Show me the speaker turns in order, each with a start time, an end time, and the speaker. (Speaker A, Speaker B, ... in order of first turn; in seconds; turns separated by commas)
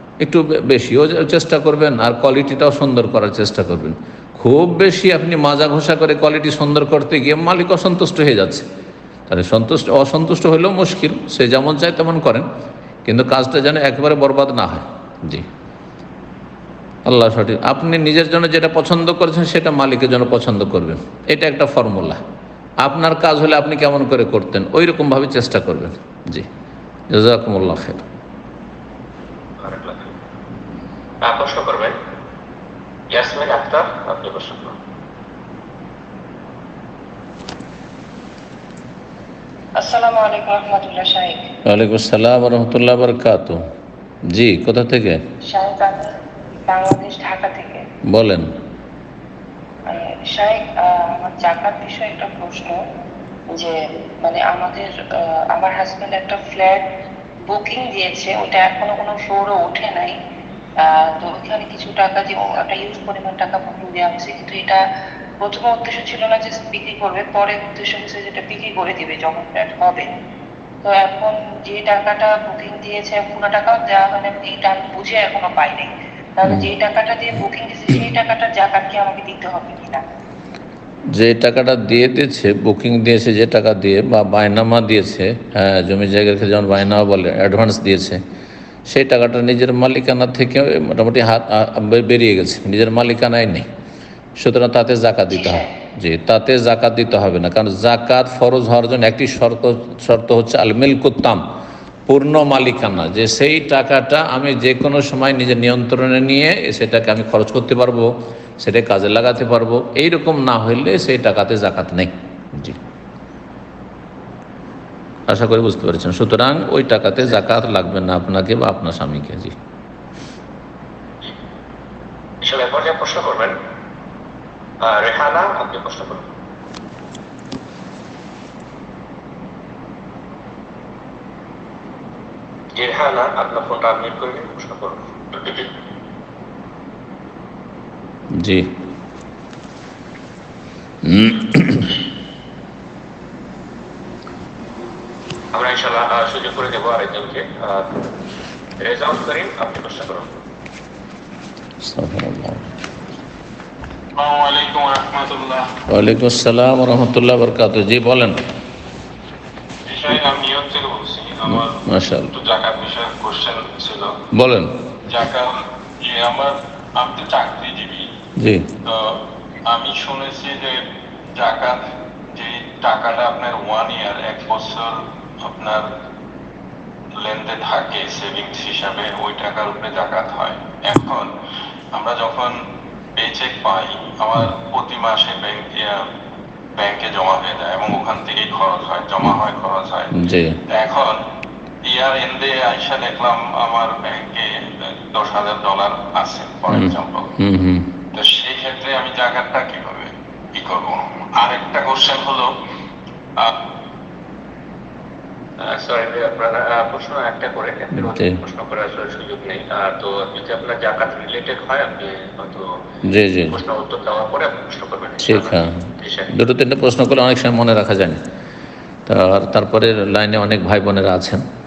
Speaker A: 0.2-8.7, Speaker A: 9.3-12.5, Speaker A: 13.1-15.5, Speaker A: 17.1-22.2, Speaker A: 22.8-26.5, Speaker A: 27.1-28.0, Speaker B: 29.6-30.1, Speaker B: 31.2-32.0, Speaker B: 33.1-34.8, Speaker C: 39.8-41.5, Speaker A: 41.7-43.6, Speaker A: 44.3-45.2, Speaker C: 45.5-46.1, Speaker C: 46.6-47.8, Speaker A: 48.1-48.5, Speaker C: 49.9-52.8, Speaker C: 53.5-56.9, Speaker C: 57.5-60.1, Speaker C: 60.8-64.8, Speaker C: 65.4-70.1, Speaker C: 70.8-80.0, Speaker A: 76.5-76.7, Speaker A: 81.1-88.2, Speaker A: 88.9-93.7, Speaker A: 94.4-101.4, Speaker C: 95.3-95.7, Speaker A: 102.1-112.8, Speaker A: 115.3-119.6, Speaker B: 122.4-123.5, Speaker B: 124.8-126.3, Speaker B: 132.8-135.7, Speaker A: 138.3-138.7, Speaker A: 141.0-142.0, Speaker B: 145.5-147.9, Speaker B: 148.8-150.4, Speaker A: 151.8-152.7, Speaker D: 154.2-155.7, Speaker A: 155.9-158.4, Speaker D: 159.9-161.8, Speaker A: 161.5-162.3, Speaker D: 162.3-164.2, Speaker A: 164.3-164.8, Speaker D: 165.1-168.1, Speaker A: 168.4-168.7, Speaker D: 168.8-170.8, Speaker D: 171.4-171.8, Speaker D: 172.3-175.9, Speaker D: 177.2-181.3, Speaker D: 181.9-182.6, Speaker D: 183.2-186.1, Speaker D: 186.8-190.1, Speaker A: 190.2-190.6, Speaker D: 190.7-191.2, Speaker D: 191.8-197.3, Speaker A: 196.7-198.0, Speaker D: 198.1-202.5, Speaker B: 205.6-212.7, Speaker A: 207.9-208.4, Speaker A: 213.1-213.6, Speaker B: 213.5-216.3, Speaker A: 215.2-218.2, Speaker A: 219.1-221.4